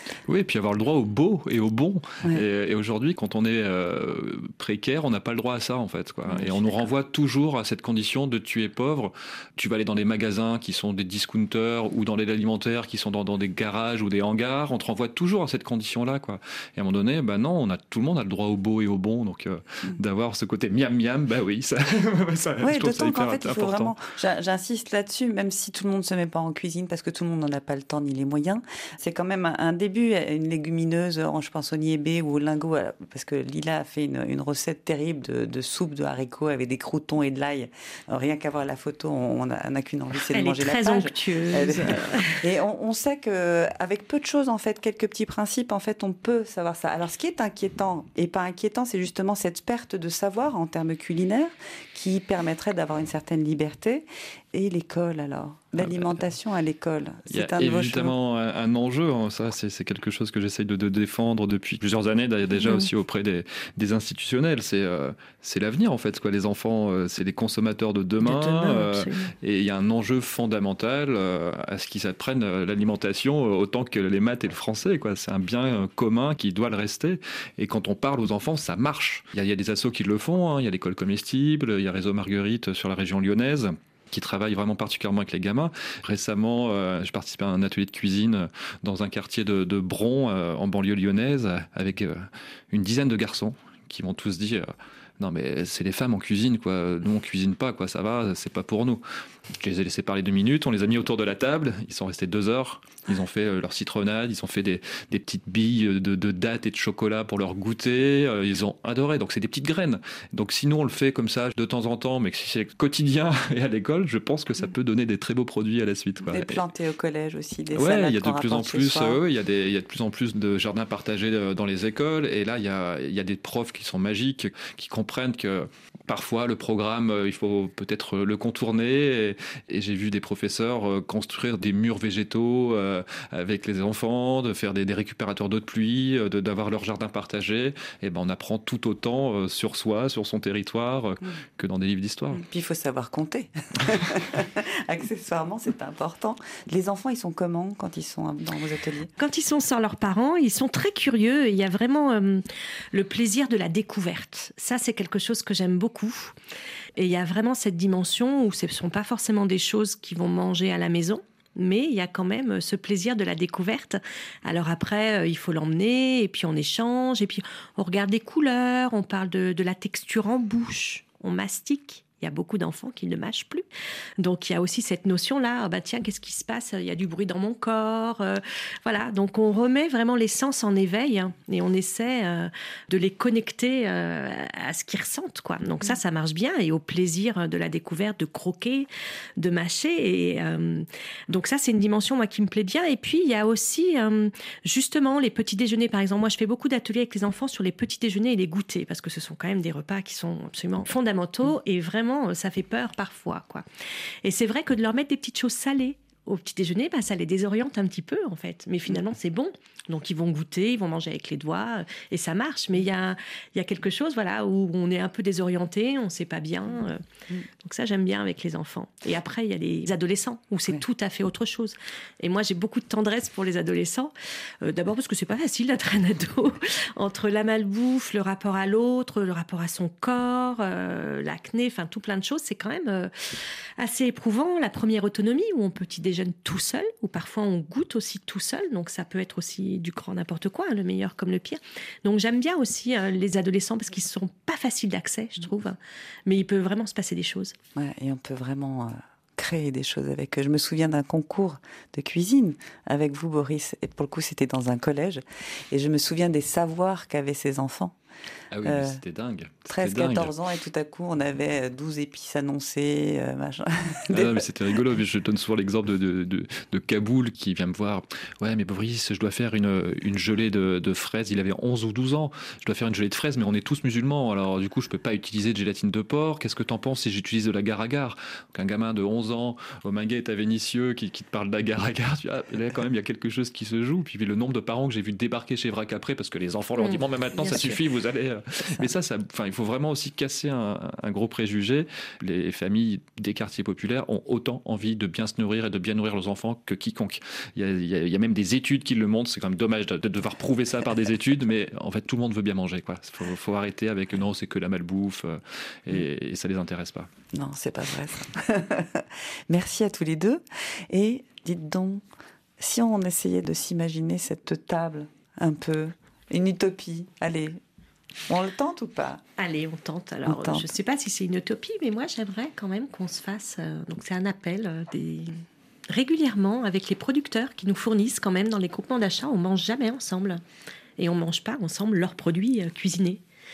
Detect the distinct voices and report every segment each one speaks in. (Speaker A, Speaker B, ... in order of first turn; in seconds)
Speaker A: 0.3-23.9, 55.8-56.2, 57.3-99.0, 99.6-116.6, 117.7-142.4, 258.5-260.3, 264.1-307.1
Speaker B: 6.3-6.8, 22.6-58.1, 116.3-119.2, 142.3-149.1, 247.8-257.9, 258.6-259.0, 259.7-264.4, 307.3-312.0, 312.6-317.6, 318.3-319.2, 320.2-320.7
Speaker C: 40.3-42.4, 68.2-69.3, 149.2-156.3, 157.0-173.6, 174.2-203.6, 204.2-217.0, 217.6-233.1, 233.8-247.5, 286.8-287.8, 319.4-325.4, 325.9-330.4, 331.0-333.2